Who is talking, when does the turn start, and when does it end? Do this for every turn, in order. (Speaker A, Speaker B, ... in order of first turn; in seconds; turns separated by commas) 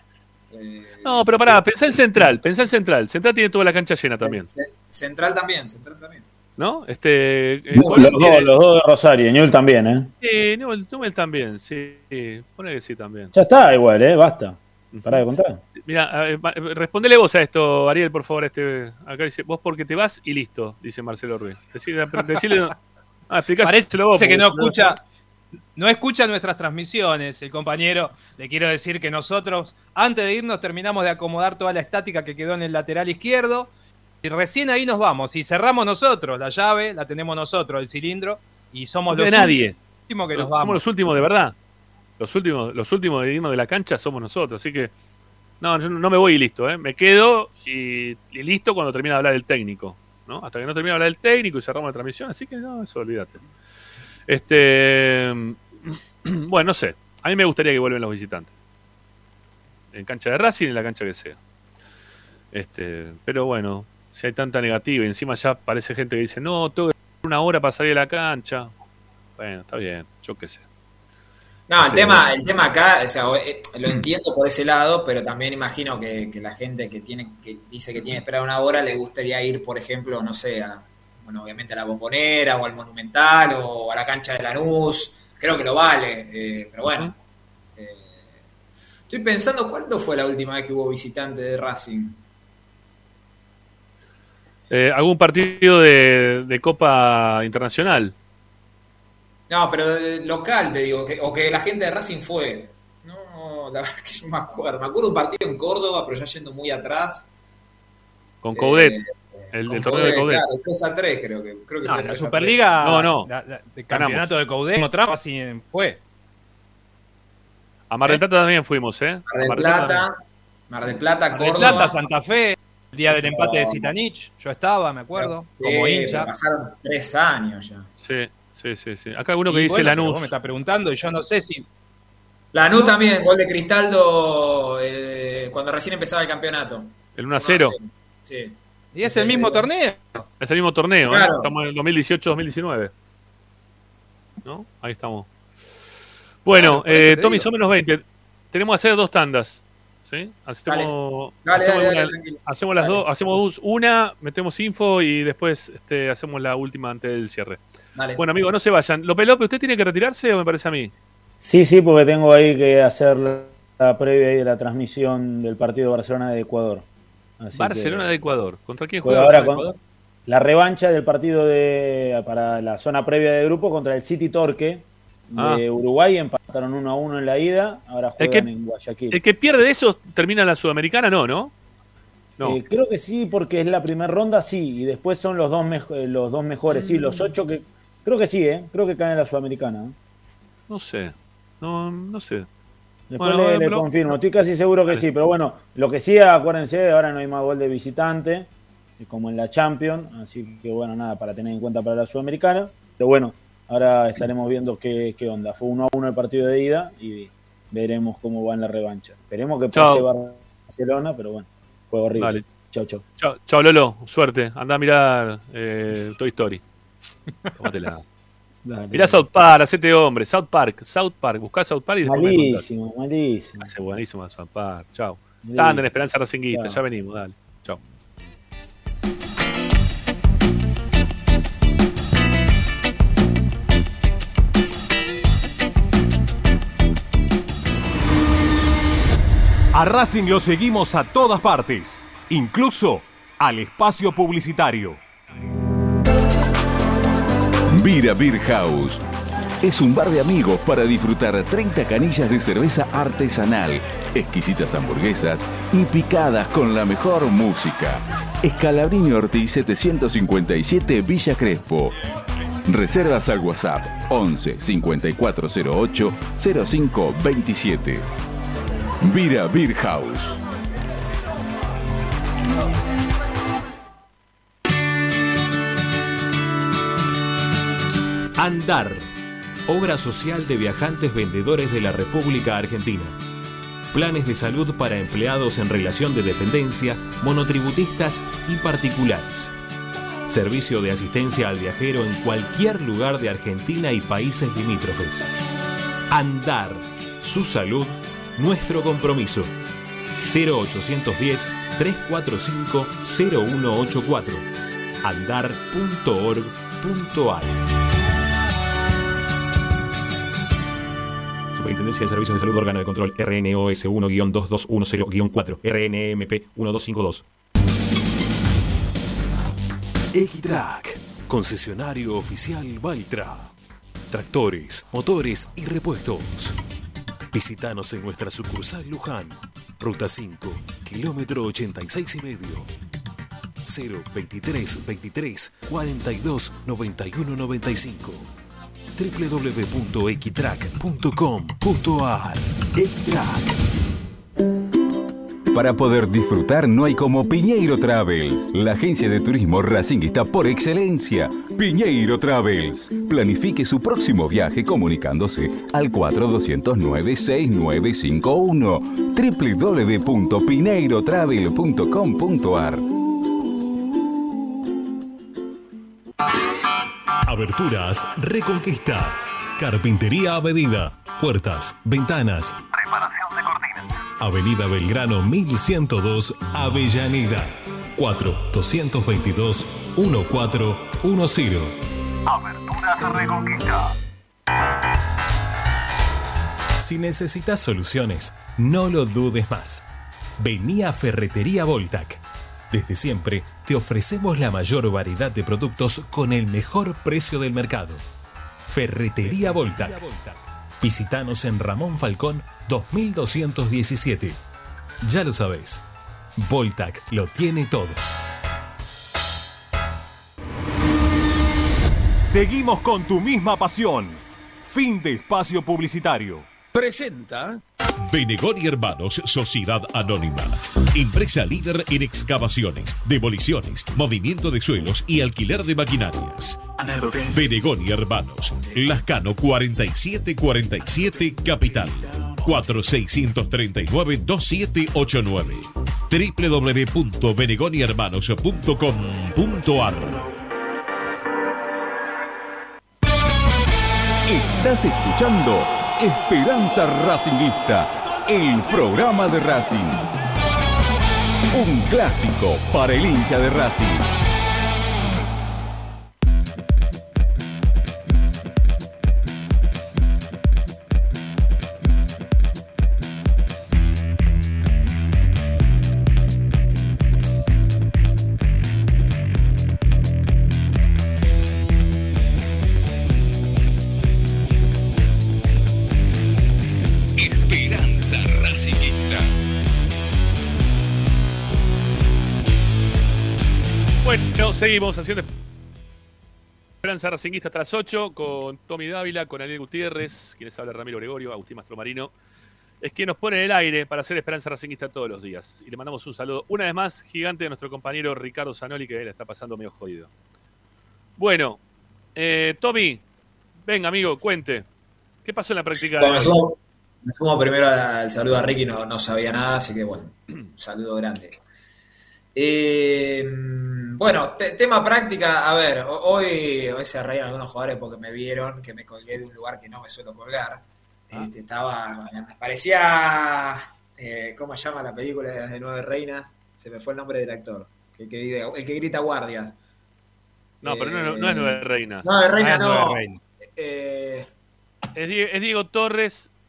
Speaker A: 0.5-1.9, Speaker B: 1.0-4.5, Speaker A: 4.2-6.3, Speaker B: 6.6-8.5, Speaker C: 7.7-10.1, Speaker A: 7.8-8.2, Speaker B: 10.2-13.3, Speaker C: 13.3-15.6, Speaker B: 14.9-15.2, Speaker B: 15.8-22.8, Speaker B: 23.3-25.0, Speaker D: 23.6-25.0, Speaker D: 25.8-33.7, Speaker D: 34.2-40.8, Speaker B: 39.1-39.8, Speaker B: 40.3-41.5, Speaker B: 42.2-44.9, Speaker B: 45.6-53.4, Speaker B: 54.3-58.5, Speaker B: 59.9-61.4, Speaker B: 62.5-68.7, Speaker B: 69.4-70.7, Speaker A: 71.7-87.2, Speaker B: 71.8-72.3, Speaker B: 86.9-87.1, Speaker A: 87.8-88.4, Speaker A: 89.1-92.2, Speaker B: 94.7-98.2, Speaker A: 99.5-107.3, Speaker B: 108.4-109.0, Speaker A: 108.5-112.7, Speaker B: 109.5-110.5, Speaker D: 111.8-116.0, Speaker B: 112.8-113.3, Speaker B: 113.9-114.3, Speaker B: 117.9-120.1, Speaker A: 119.3-122.0, Speaker D: 121.3-126.3, Speaker A: 123.2-123.9, Speaker A: 125.2-127.9, Speaker B: 128.0-130.3, Speaker D: 129.5-131.7, Speaker A: 132.5-139.7, Speaker B: 137.2-137.8, Speaker D: 138.9-140.3, Speaker B: 140.4-142.9, Speaker A: 141.1-141.5, Speaker B: 144.4-145.3, Speaker B: 146.4-157.6, Speaker A: 146.5-147.5, Speaker A: 150.7-153.1, Speaker A: 157.9-158.2, Speaker B: 158.2-160.9, Speaker C: 161.4-166.9, Speaker C: 167.4-168.1, Speaker B: 167.6-169.7, Speaker C: 169.0-179.2, Speaker B: 175.4-175.6, Speaker B: 178.2-178.5, Speaker B: 179.1-181.5, Speaker C: 182.4-189.9, Speaker B: 186.7-187.3, Speaker B: 190.7-192.5, Speaker C: 193.1-198.5, Speaker B: 193.2-193.9, Speaker C: 199.0-213.0, Speaker B: 209.7-210.1, Speaker B: 212.2-212.4, Speaker B: 213.2-216.6, Speaker B: 217.6-218.0, Speaker C: 218.7-219.2, Speaker B: 218.9-222.7, Speaker C: 222.1-223.7, Speaker B: 223.6-227.8, Speaker C: 225.4-225.9, Speaker C: 226.5-226.8, Speaker E: 239.7-245.0, Speaker F: 247.7-249.0, Speaker F: 249.6-261.9, Speaker F: 262.7-268.1, Speaker F: 269.1-270.4, Speaker G: 278.4-279.1, Speaker G: 279.7-283.2, Speaker G: 283.9-289.5, Speaker G: 290.3-295.3, Speaker G: 296.1-299.5, Speaker G: 300.2-304.5, Speaker G: 305.0-307.5, Speaker G: 311.6-317.2, Speaker G: 320.1-323.5, Speaker G: 324.1-326.6, Speaker G: 327.3-332.7, Speaker G: 333.6-338.3, Speaker G: 339.0-343.5, Speaker F: 345.5-362.9, Speaker G: 367.2-373.5, Speaker G: 374.2-381.8, Speaker G: 382.5-383.7, Speaker G: 386.8-389.9, Speaker G: 390.4-398.1, Speaker G: 398.7-404.4, Speaker G: 405.0-405.8, Speaker G: 406.4-408.1, Speaker E: 412.2-416.5, Speaker H: 416.7-440.3, Speaker F: 444.3-450.0, Speaker F: 451.5-454.1, Speaker F: 477.2-479.3, Speaker B: 484.0-485.3, Speaker B: 486.8-492.1, Speaker B: 492.8-500.1, Speaker B: 501.2-501.6, Speaker B: 502.1-503.0, Speaker B: 503.7-504.7, Speaker B: 505.2-506.4, Speaker A: 506.0-511.4, Speaker A: 512.4-529.6, Speaker B: 530.6-532.1, Speaker A: 530.6-534.3, Speaker D: 532.4-533.2, Speaker B: 535.0-536.3